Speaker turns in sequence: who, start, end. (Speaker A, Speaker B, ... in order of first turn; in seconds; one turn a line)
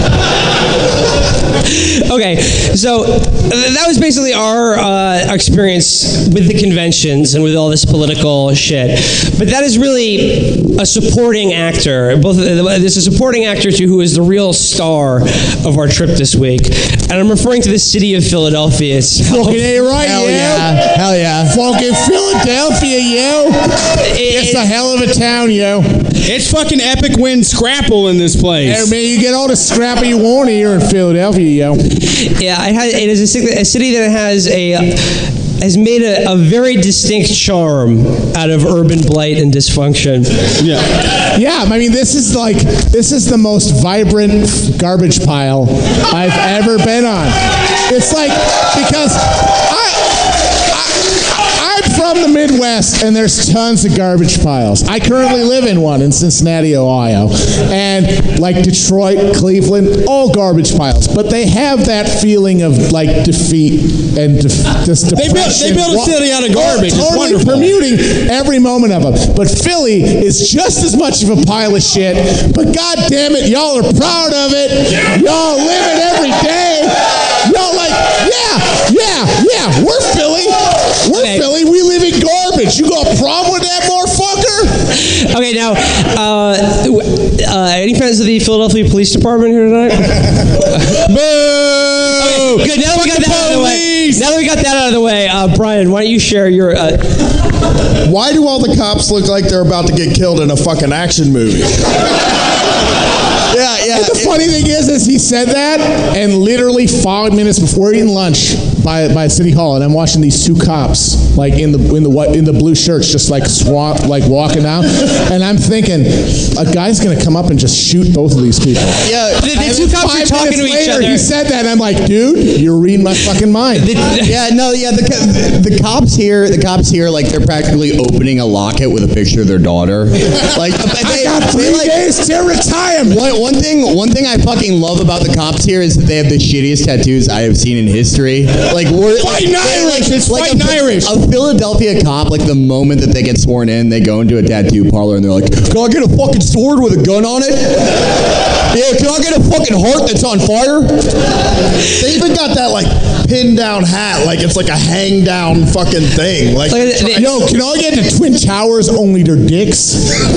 Speaker A: 1.7-19.7
Speaker B: 19.2-26.1
Speaker C: 19.9-21.6
Speaker A: 24.0-24.7
Speaker D: 26.2-28.9
Speaker B: 28.6-31.9
Speaker A: 32.1-40.4
Speaker D: 40.6-40.9
Speaker B: 41.3-84.7
Speaker D: 65.1-67.7
Speaker A: 81.1-81.4
Speaker A: 85.0-90.9
Speaker D: 90.9-94.2
Speaker A: 92.2-97.1
Speaker E: 98.0-101.7
Speaker C: 103.5-104.3
Speaker B: 103.9-123.9
Speaker C: 119.0-119.5
Speaker A: 119.4-121.3
Speaker A: 123.7-124.3
Speaker C: 124.2-132.0
Speaker B: 130.9-133.2
Speaker C: 133.1-148.0
Speaker D: 139.2-141.1
Speaker C: 148.7-151.1
Speaker E: 152.0-157.2
Speaker A: 156.7-157.3
Speaker B: 157.1-160.1